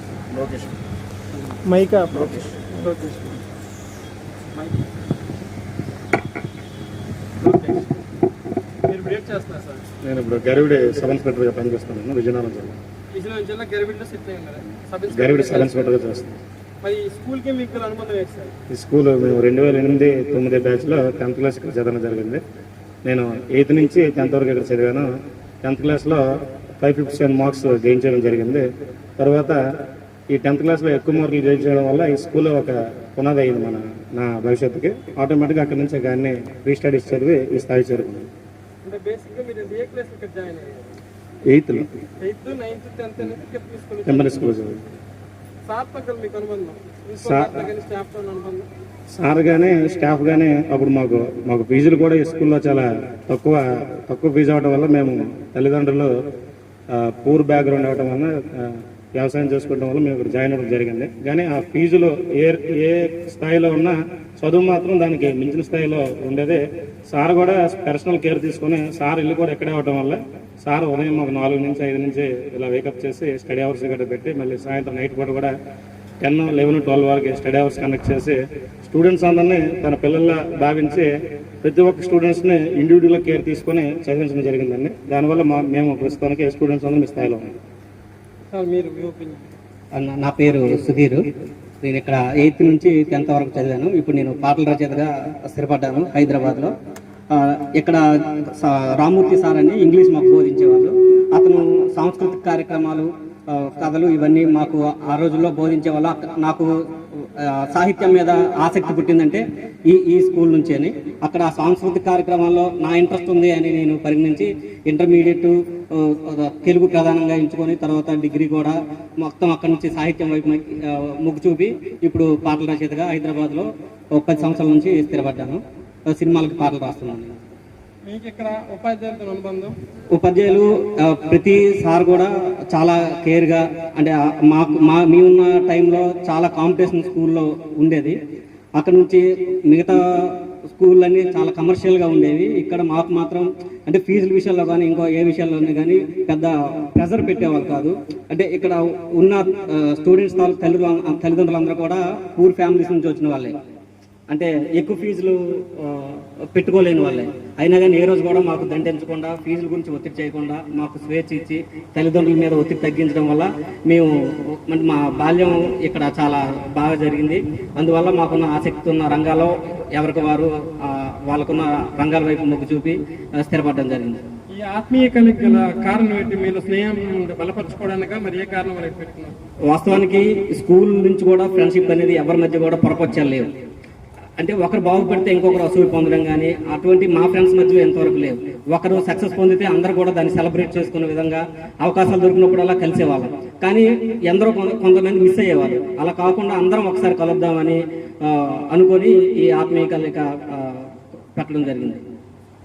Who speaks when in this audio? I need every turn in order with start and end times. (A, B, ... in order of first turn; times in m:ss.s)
0:00.4-0:00.7 A
0:01.7-0:03.4 B
0:04.6-0:04.8 B
0:07.4-0:07.9 B
0:08.9-0:09.8 B
0:10.0-0:12.8 A
0:13.1-0:15.9 B
0:15.1-0:16.4 A
0:16.8-0:18.5 B
0:18.7-0:22.4 A
0:23.0-0:25.1 A
0:25.6-0:26.2 A
0:26.8-0:28.6 A
0:29.2-0:29.6 A
0:30.3-0:38.3 A
0:38.8-0:40.8 B
0:41.5-0:41.9 A
0:42.2-0:44.5 B
0:44.1-0:44.8 A
0:45.7-0:48.7 B
0:47.2-0:47.7 A
0:49.1-0:56.1 A
0:56.9-1:15.6 A
1:16.2-1:21.1 A
1:21.6-1:27.5 A
1:28.5-1:29.5 B
1:29.9-1:31.3 C
1:31.8-1:36.7 C
1:37.3-2:07.4 C
2:08.1-2:09.8 B
2:10.1-2:18.2 C
2:18.8-2:33.6 C
2:34.3-2:54.2 C
2:54.5-2:59.4 B
2:59.7-3:03.5 C
3:04.4-3:22.0 C